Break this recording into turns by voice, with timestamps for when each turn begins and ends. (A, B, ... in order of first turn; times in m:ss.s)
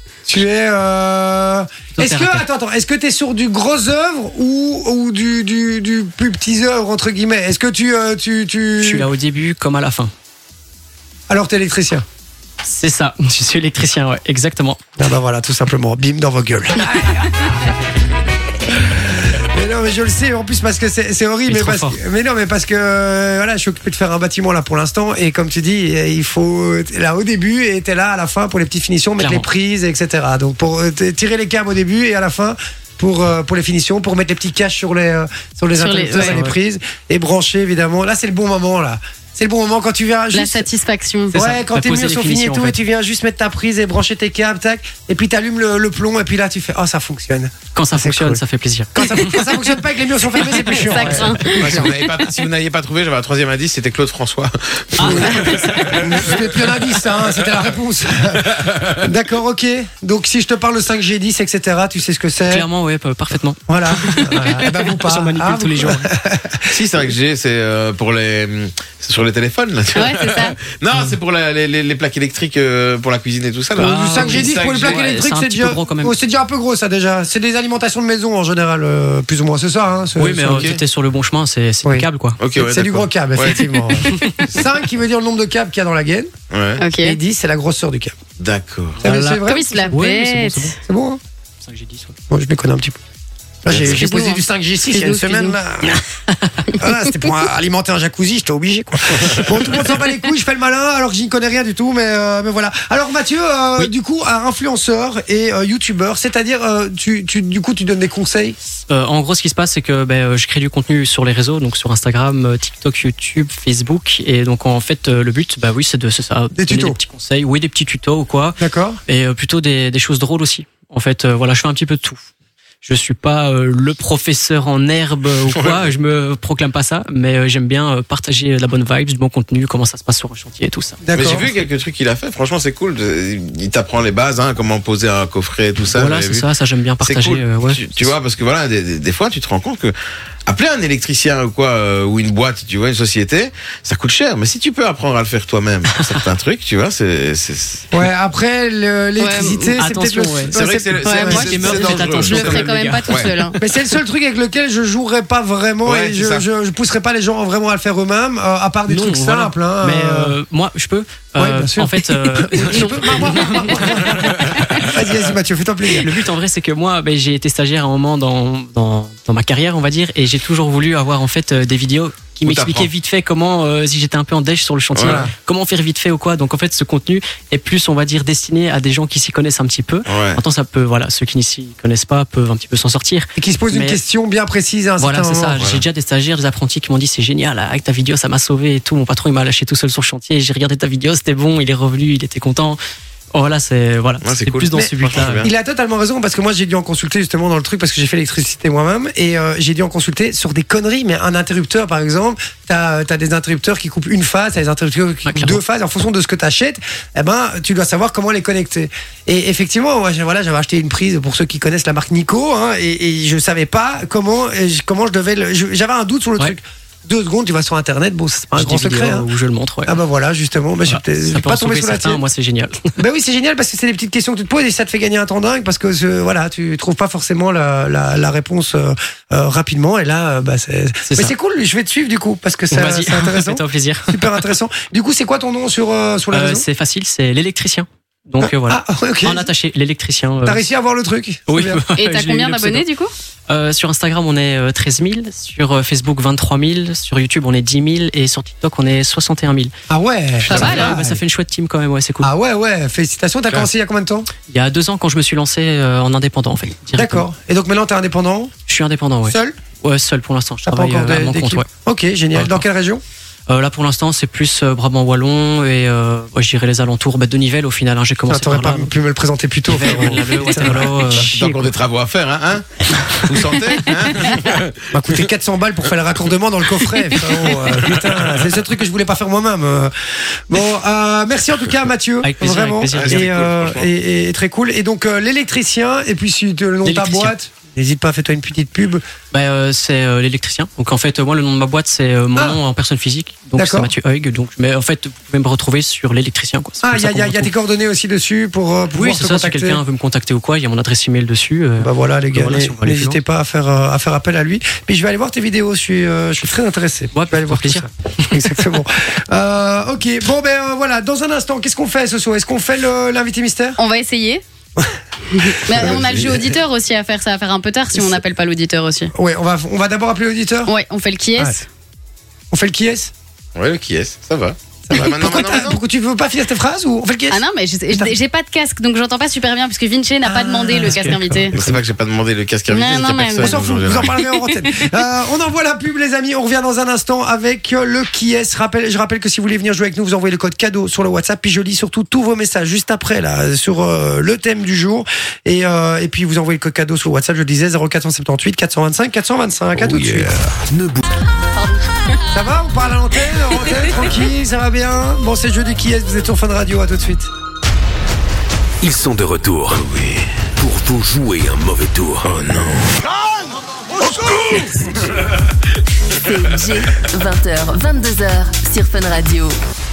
0:00.3-0:09.1 A
0:02.0-0:02.4 B
0:08.8-0:10.1 B
0:11.3-0:12.0 A
0:12.6-0:14.8 B
0:15.0-0:17.4 A
0:18.8-0:40.7 A
0:21.5-0:22.0 B
0:29.2-0:29.5 B
0:35.8-0:36.4 C
0:36.1-0:36.6 B
0:40.3-0:41.4 C
0:41.3-0:42.8 B
0:41.3-0:48.4 A
0:47.8-0:49.2 B
0:48.9-0:51.9 A
0:50.6-0:52.0 C
0:51.5-0:56.4 D
0:55.0-0:56.4 B
0:55.0-1:02.7 A
1:02.5-1:06.1 B
1:03.7-1:06.7 A
1:06.7-1:15.2 D
1:09.9-1:10.6 C
1:13.8-1:16.2 B
1:13.8-1:20.7 A
1:20.2-1:22.4 B
1:20.4-1:20.8 D
1:21.8-1:26.3 A
1:22.4-1:24.0 D
1:26.5-1:26.8 D
1:26.8-1:27.2 C
1:27.0-1:28.2 A
1:28.4-1:29.0 D
1:29.0-1:30.8 B
1:29.0-1:29.9 A
1:29.4-1:30.8 C
1:30.8-1:31.2 A
1:31.6-1:32.2 B
1:32.3-1:33.0 A
1:33.6-1:36.0 A
1:33.7-1:34.0 D
1:33.9-1:35.6 C
1:36.8-1:48.6 A
1:48.9-2:02.2 B
1:56.5-1:57.0 A
1:58.6-1:59.0 A
2:02.8-2:11.0 B
2:05.5-2:05.8 D
2:11.0-2:11.5 A
2:11.1-2:16.5 D
2:15.9-2:18.2 B
2:17.0-2:20.0 D
2:20.5-2:27.9 D
2:27.9-2:32.6 A
2:29.2-2:29.7 C
2:29.8-2:30.6 B
2:30.5-2:33.3 D
2:31.0-2:33.6 C
2:31.2-2:33.4 B
2:33.6-2:40.4 A
2:35.8-2:36.4 D
2:38.9-2:44.9 B
2:41.4-2:46.1 A
2:46.0-3:04.0 B
2:52.4-2:52.9 D
2:55.0-2:55.3 D
2:55.0-2:55.3 A
3:00.1-3:00.4 D
3:03.4-3:05.6 A
3:05.0-3:12.8 B
3:13.3-3:15.5 B
3:14.2-3:15.5 D
3:14.7-3:39.3 A
3:25.3-3:25.6 B
3:38.6-3:40.0 B
3:39.9-3:42.2 A
3:40.9-3:42.9 B
3:43.0-3:56.7 A
3:51.1-3:51.3 B
3:52.7-3:54.4 B
3:56.3-4:00.6 B
3:58.4-3:59.5 A
4:00.4-4:01.8 A
4:01.5-4:02.8 B
4:02.0-4:03.1 C
4:03.5-4:09.7 B
4:09.9-4:11.2 A
4:10.4-4:12.3 B
4:10.5-4:10.9 C
4:12.2-4:14.3 A
4:14.5-4:17.3 B
4:17.0-4:18.5 A
4:18.7-4:21.7 B
4:19.3-4:19.6 A
4:20.7-4:23.0 A
4:22.3-4:22.6 B
4:23.5-4:28.9 B
4:28.3-4:31.3 A
4:29.7-4:31.7 B
4:30.8-4:35.2 D
4:34.9-4:49.0 A
4:42.2-4:43.4 B
4:42.9-4:43.9 D
4:46.8-4:47.3 B
4:49.3-4:57.5 B
4:52.4-4:52.6 A
4:53.6-4:53.9 A
4:56.8-4:59.8 A
4:59.0-5:03.2 B
5:01.8-5:13.8 A
5:07.1-5:08.5 B
5:13.8-5:14.4 C
5:14.8-5:16.4 A
5:15.3-5:19.1 C
5:15.8-5:16.5 D
5:17.9-5:18.2 A
5:19.2-5:20.7 A
5:20.7-5:21.6 C
5:22.5-5:23.1 A
5:23.6-5:25.8 D
5:24.9-5:28.2 A
5:27.3-5:31.6 C
5:30.2-5:31.8 A
5:31.5-5:34.2 D
5:32.7-5:34.8 C
5:33.4-5:50.3 A
5:49.8-5:51.0 E
5:52.3-5:57.3 A
5:58.8-5:59.9 E
5:59.7-6:00.2 D
6:00.6-6:02.3 E
6:02.2-6:03.0 D
6:06.2-6:09.6 F